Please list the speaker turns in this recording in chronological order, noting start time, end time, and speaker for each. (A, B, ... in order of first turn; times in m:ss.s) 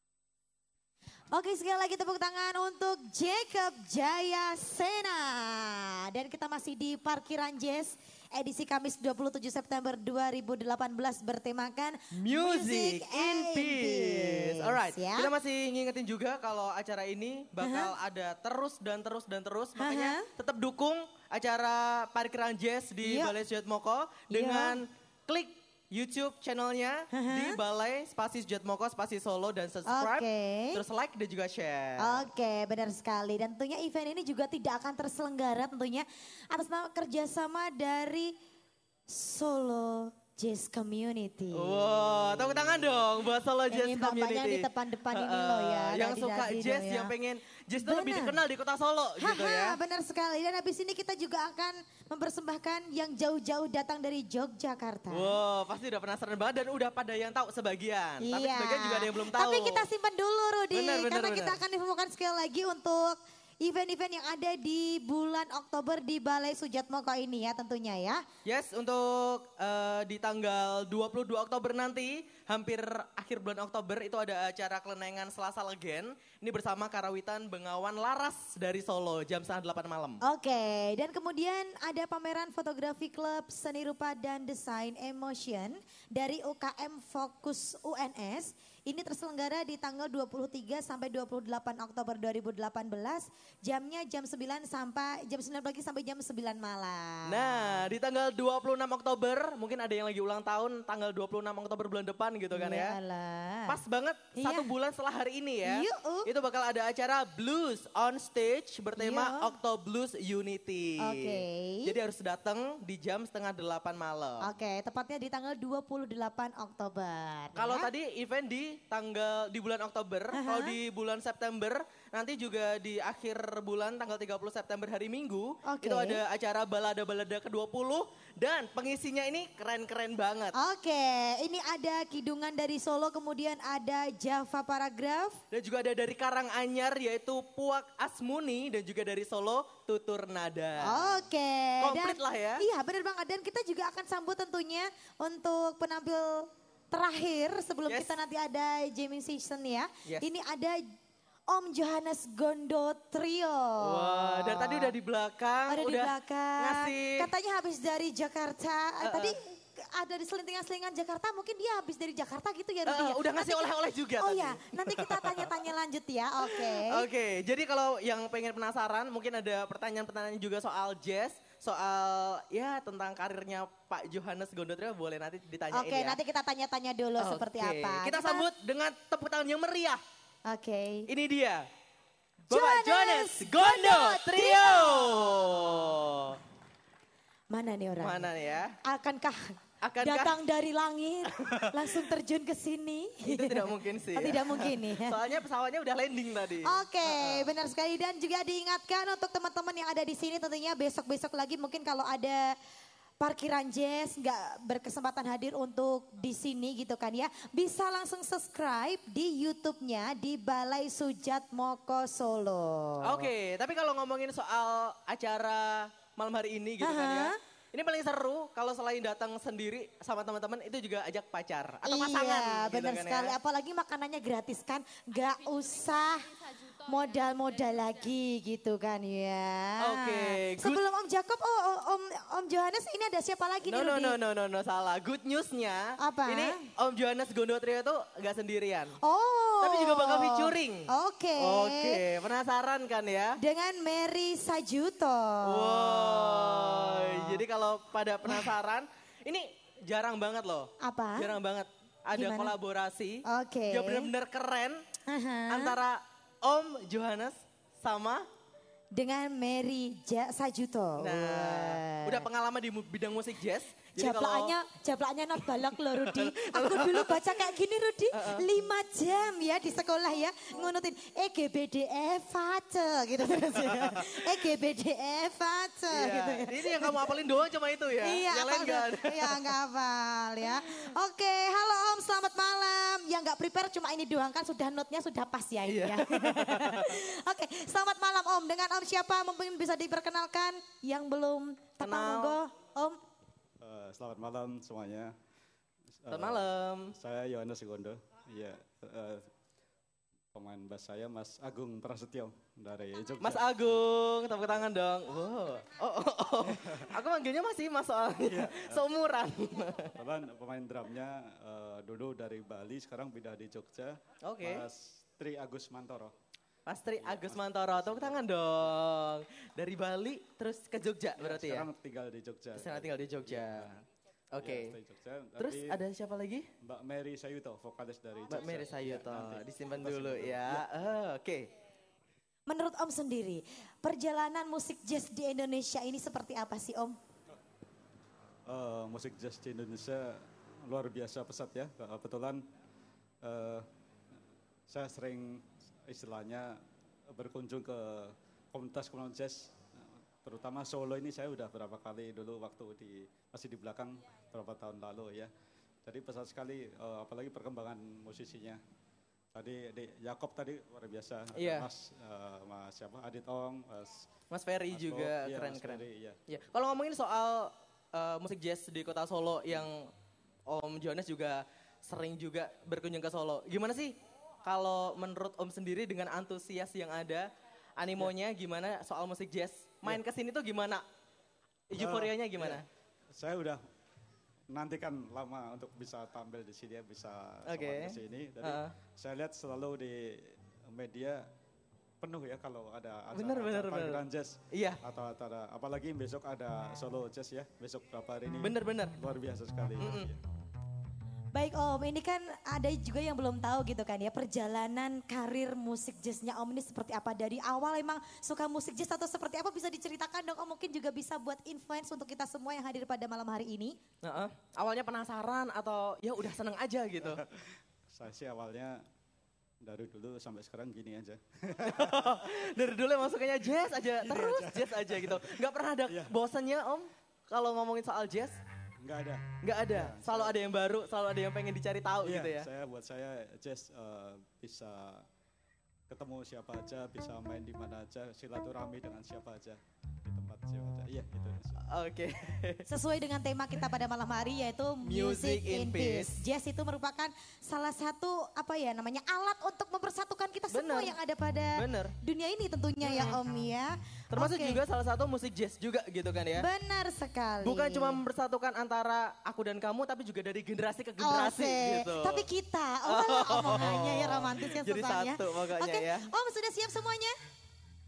0:01.3-0:15.3 A
0:12.2-0:32.2 B
0:17.6-0:17.9 A
0:19.8-0:20.3 A
0:23.0-0:23.3 A
0:24.3-0:24.8 A
0:27.1-0:27.6 A
0:29.9-0:30.8 A
0:32.0-0:38.3 A
0:39.1-0:41.8 A
0:41.6-0:49.8 B
0:43.7-0:47.1 A
0:47.8-0:48.4 A
0:49.2-0:55.4 A
0:55.1-0:59.9 B
0:58.2-1:08.2 A
1:00.7-1:01.6 B
1:08.5-1:20.2 B
1:20.2-1:37.7 A
1:37.3-1:43.0 B
1:42.5-1:43.8 A
1:43.7-1:54.4 B
1:44.4-1:44.7 A
1:45.7-1:46.3 A
1:49.0-1:49.5 A
1:51.0-1:51.9 A
1:54.4-1:57.9 A
1:57.6-2:10.6 B
2:00.3-2:00.8 A
2:05.7-2:06.2 A
2:10.6-2:15.4 A
2:15.5-2:21.2 B
2:20.8-2:30.8 A
2:21.8-2:22.6 B
2:31.5-2:34.9 A
2:33.8-2:37.3 B
2:35.7-2:43.7 A
2:39.0-2:39.3 B
2:42.9-2:45.5 B
2:44.2-2:47.0 A
2:46.4-2:56.2 B
2:55.7-2:58.4 A
2:57.2-3:00.0 B
3:00.5-3:01.1 A
3:01.1-3:01.6 B
3:02.5-3:05.3 A
3:02.5-3:06.4 B
3:07.5-3:08.3 A
3:08.0-3:08.8 B
3:08.8-3:15.2 A
3:09.8-3:10.4 B
3:11.4-3:12.0 B
3:13.2-3:17.5 B
3:16.7-3:22.5 A
3:23.2-3:33.3 A
3:33.0-3:43.4 B
3:36.8-3:37.3 A
3:41.8-3:54.2 A
3:49.8-3:50.8 B
3:53.6-3:59.0 B
3:56.0-3:56.7 A
3:59.0-4:02.0 A
3:59.6-4:03.4 B
4:03.4-4:06.4 A
4:05.4-4:14.8 B
4:10.8-4:11.3 A
4:12.1-4:12.6 A
4:13.3-4:14.1 A
4:15.1-4:15.8 A
4:15.5-4:18.3 B
4:19.0-4:22.2 A
4:21.0-4:24.5 B
4:24.0-4:37.0 A
4:25.6-4:27.2 B
4:28.1-4:28.4 B
4:33.4-4:34.4 B
4:35.9-4:39.5 B
4:38.0-4:53.0 A
4:45.7-4:47.0 B
4:51.8-4:52.4 B
4:53.6-4:55.1 C
4:56.0-4:59.3 C
4:56.1-4:56.9 B
5:00.3-5:03.7 C
5:03.2-5:09.9 B
5:06.5-5:06.9 C
5:08.3-5:08.8 C
5:10.0-5:16.1 C
5:14.3-5:14.7 B
5:16.7-5:21.7 B
5:17.0-5:18.2 C
5:21.2-5:23.8 C
5:22.6-5:23.7 B
5:24.3-5:24.8 B
5:24.4-5:25.8 C
5:25.4-5:26.5 B
5:26.6-5:30.6 C
5:28.3-5:31.5 B
5:32.5-5:37.0 A
5:38.5-5:42.4 C
5:43.2-5:43.7 C
5:44.7-5:46.6 C
5:47.1-5:49.7 C
5:50.2-5:55.3 C
5:55.8-5:58.6 C
5:59.3-6:04.1 C
6:01.4-6:01.7 B
6:04.3-6:09.9 B
6:04.7-6:06.2 C
6:10.5-6:17.3 B
6:17.8-6:20.8 B
6:21.7-6:22.6 B
6:21.8-6:22.6 C
6:23.2-6:23.6 C
6:24.5-6:31.3 C
6:27.5-6:28.7 B
6:32.0-6:40.2 C
6:33.1-6:34.0 B
6:34.5-6:34.8 B
6:38.4-6:38.9 B
6:39.8-6:40.1 B
6:41.3-6:53.8 A
6:54.0-6:57.2 B
6:57.1-6:58.8 C
6:59.6-7:02.2 C
7:01.6-7:08.4 B
7:04.0-7:06.1 C
7:08.8-7:10.4 C
7:09.4-7:12.5 B
7:12.0-7:15.1 C
7:15.9-7:21.6 C
7:21.6-7:22.6 B
7:22.7-7:34.6 A
7:24.8-7:26.2 B
7:30.5-7:31.0 B
7:31.6-7:31.9 B
7:32.8-7:33.2 B
7:34.1-7:36.4 B
7:36.4-7:38.0 A
7:37.4-7:42.2 B
7:41.0-7:47.2 A
7:42.9-7:46.1 B